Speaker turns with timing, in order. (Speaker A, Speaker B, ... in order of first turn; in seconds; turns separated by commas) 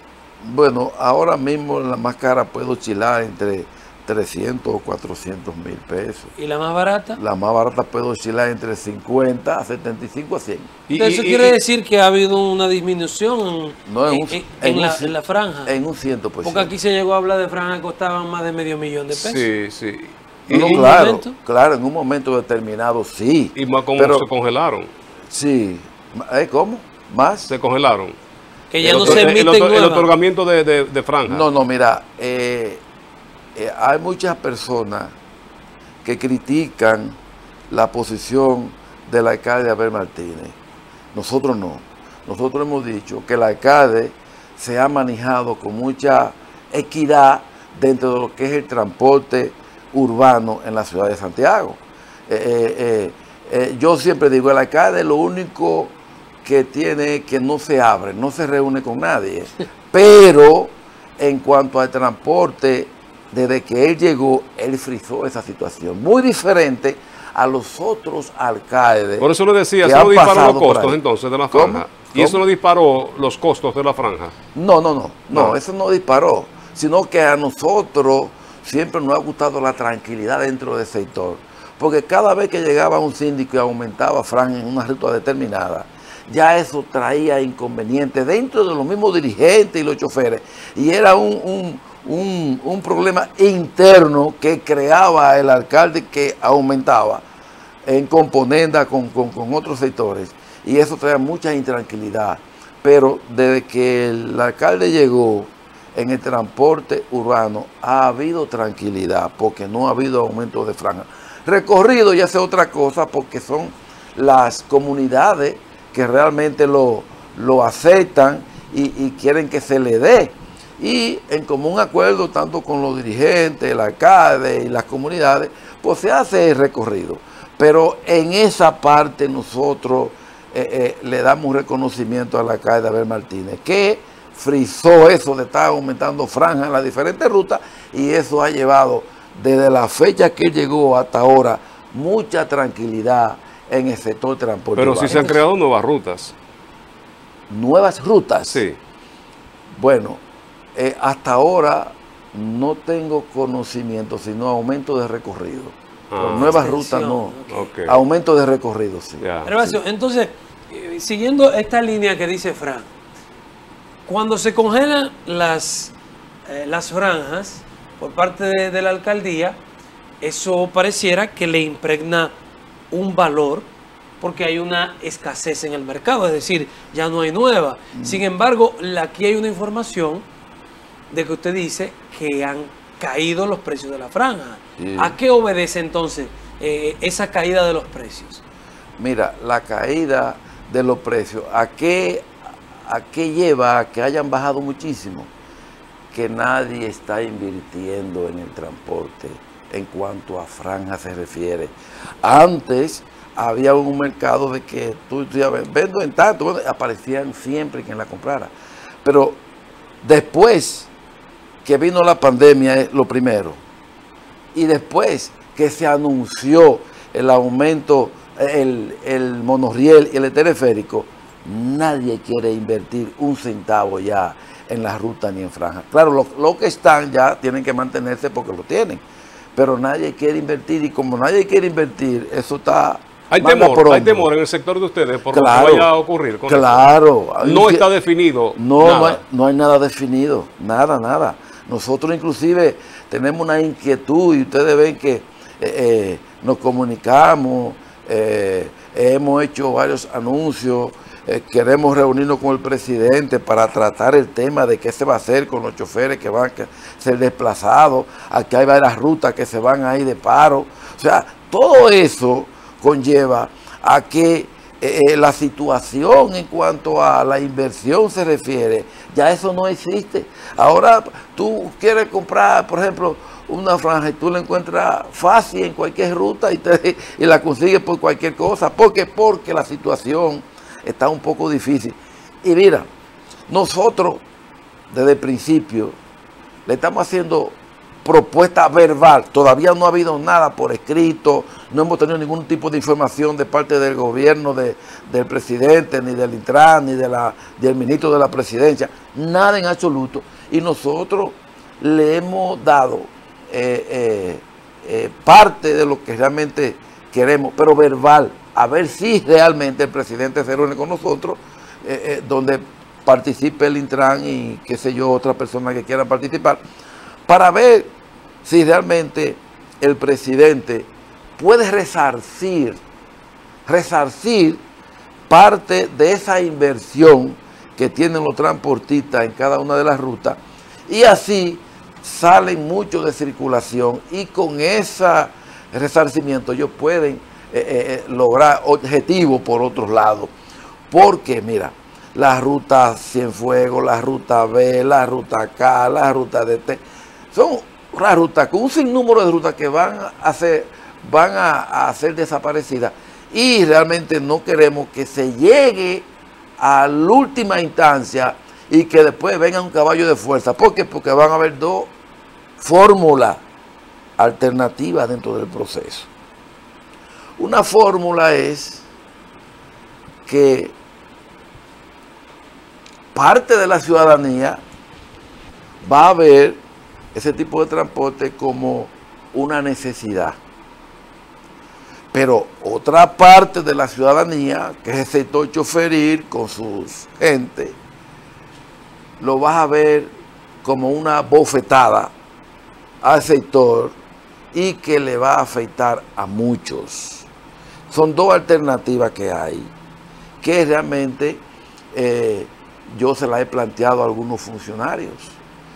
Speaker A: 0.4-6.3, Speaker B: 6.4-7.2, Speaker A: 7.2-10.7, Speaker C: 10.9-11.5, Speaker B: 10.9-15.7, Speaker A: 13.8-16.7, Speaker B: 16.4-19.5, Speaker C: 19.1-20.8, Speaker A: 20.5-24.2, Speaker B: 20.5-21.4, Speaker C: 23.6-24.9, Speaker A: 25.3-27.5, Speaker C: 27.5-28.1, Speaker B: 28.7-30.1, Speaker C: 28.8-31.5, Speaker A: 28.9-29.3, Speaker A: 31.2-32.8, Speaker A: 33.5-35.1, Speaker A: 36.0-37.1, Speaker A: 37.7-40.5, Speaker A: 41.1-69.3, Speaker C: 69.2-74.3, Speaker A: 69.8-71.0, Speaker A: 71.5-72.4, Speaker A: 74.5-97.2, Speaker A: 97.8-145.4, Speaker C: 144.8-146.3, Speaker B: 145.1-145.4, Speaker A: 147.5-148.6, Speaker C: 148.5-148.8, Speaker A: 149.7-150.2, Speaker A: 150.7-159.2, Speaker C: 156.1-156.6, Speaker B: 156.3-157.7, Speaker C: 157.5-158.0, Speaker C: 159.2-159.7, Speaker B: 159.4-162.9, Speaker B: 164.1-165.9, Speaker B: 166.5-169.6, Speaker B: 170.2-172.3, Speaker B: 172.9-173.7, Speaker B: 174.2-180.2, Speaker A: 177.9-178.2, Speaker B: 181.1-188.4, Speaker A: 184.8-185.2, Speaker A: 189.0-192.3, Speaker A: 192.8-195.3, Speaker A: 196.1-208.5, Speaker A: 209.0-209.4, Speaker A: 210.0-210.9, Speaker A: 211.6-213.6, Speaker A: 214.5-229.0, Speaker A: 229.5-234.3, Speaker C: 233.3-236.8, Speaker A: 235.3-235.9, Speaker A: 236.5-237.9, Speaker C: 237.4-239.2, Speaker A: 238.5-282.9, Speaker A: 283.5-284.2, Speaker A: 284.9-285.9, Speaker A: 286.6-316.6, Speaker A: 317.3-317.9, Speaker A: 318.4-322.8, Speaker A: 323.6-324.6, Speaker A: 325.3-340.3, Speaker A: 340.9-361.9, Speaker A: 362.6-363.4, Speaker A: 364.2-366.1, Speaker A: 367.4-368.9, Speaker A: 370.2-370.7, Speaker A: 373.1-374.6, Speaker A: 375.8-376.6, Speaker A: 377.1-380.4, Speaker A: 382.1-387.8, Speaker A: 389.2-390.1, Speaker A: 390.6-392.1, Speaker A: 393.0-393.9, Speaker A: 394.5-397.3, Speaker A: 397.9-399.7, Speaker A: 400.4-405.4